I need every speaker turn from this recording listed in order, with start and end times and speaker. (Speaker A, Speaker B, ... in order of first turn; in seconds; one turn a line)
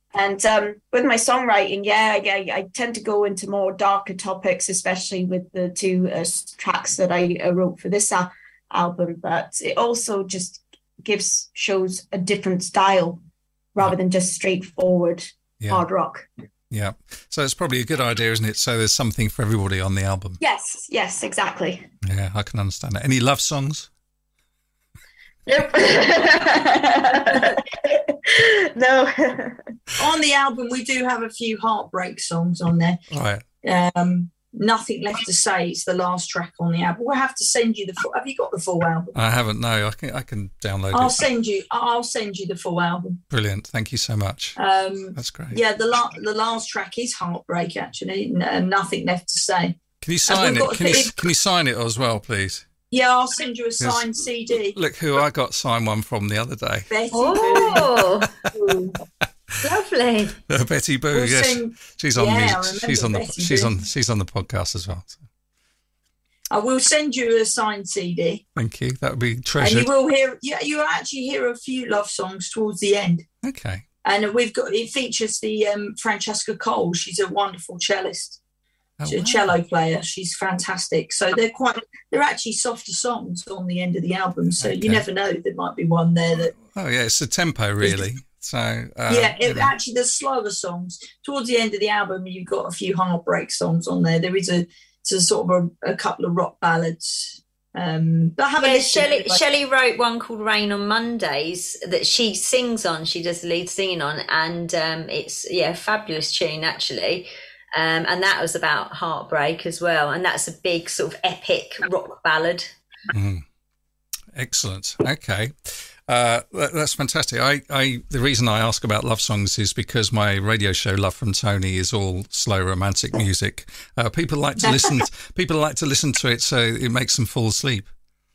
Speaker A: 0.1-13.2
Speaker A: 13.7-16.3
Speaker B: 15.6-15.8
Speaker B: 16.7-20.4
Speaker A: 20.4-21.9
Speaker B: 22.0-23.9
Speaker A: 25.5-29.7
Speaker C: 30.0-33.0
Speaker B: 33.1-33.4
Speaker C: 33.6-39.1
Speaker B: 39.1-41.2
Speaker C: 40.9-43.2
Speaker B: 43.3-44.6
Speaker C: 44.5-49.8
Speaker B: 45.1-45.6
Speaker B: 50.0-52.6
Speaker C: 50.3-51.1
Speaker C: 52.9-54.8
Speaker B: 53.8-54.1
Speaker B: 54.6-56.9
Speaker C: 56.9-59.0
Speaker D: 57.1-58.4
Speaker D: 59.6-60.4
Speaker B: 60.5-65.2
Speaker C: 61.1-63.8
Speaker C: 66.5-68.4
Speaker B: 68.5-69.9
Speaker C: 69.6-73.2
Speaker B: 73.4-73.8
Speaker C: 74.0-78.4
Speaker B: 79.0-79.5
Speaker C: 79.0-86.5
Speaker B: 84.6-85.0
Speaker B: 86.5-89.7
Speaker C: 89.1-99.4
Speaker D: 98.6-112.7
Speaker B: 113.1-113.4
Speaker B: 114.3-127.9